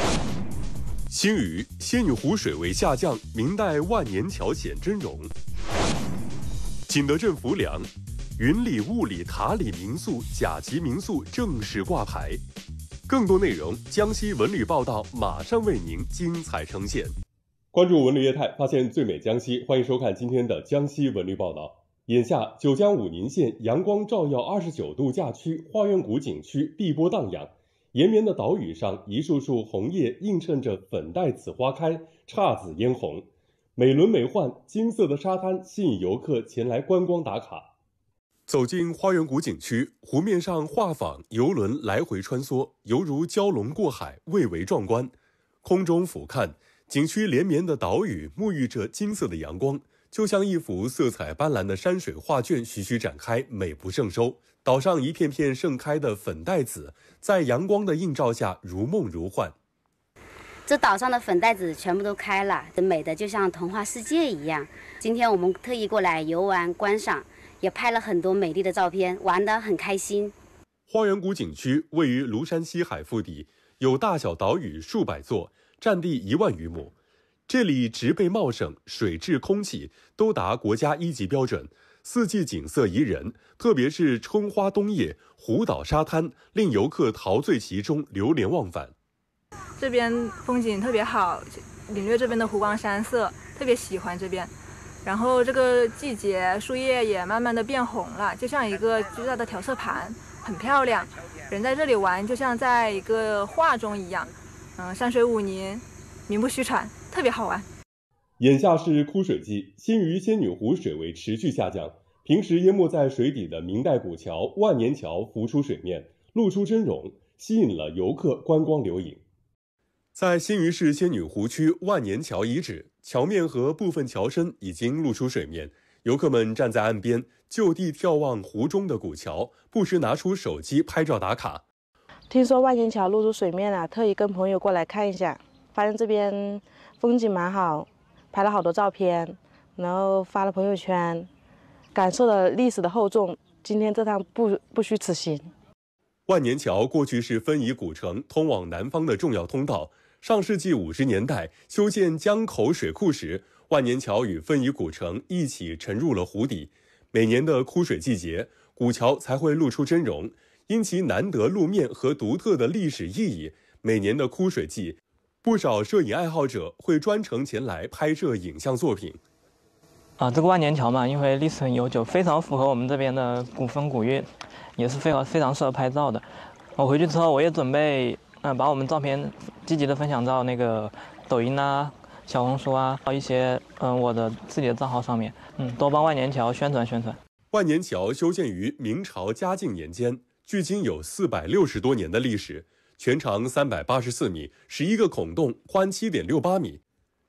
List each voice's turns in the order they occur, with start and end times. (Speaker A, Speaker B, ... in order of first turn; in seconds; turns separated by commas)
Speaker A: 1.1-5.3, Speaker A: 6.9-12.4, Speaker A: 13.1-17.1, Speaker A: 17.7-37.7, Speaker A: 38.5-45.1, Speaker A: 45.6-59.5, Speaker B: 60.7-70.3, Speaker A: 70.9-76.9, Speaker A: 77.5-88.9, Speaker C: 89.8-107.7, Speaker A: 108.4-119.2, Speaker A: 120.2-131.6, Speaker D: 132.3-141.3, Speaker D: 141.9-145.5, Speaker A: 146.3-169.2, Speaker E: 170.2-174.2, Speaker E: 174.8-176.2, Speaker E: 176.8-187.2, Speaker A: 187.5-196.8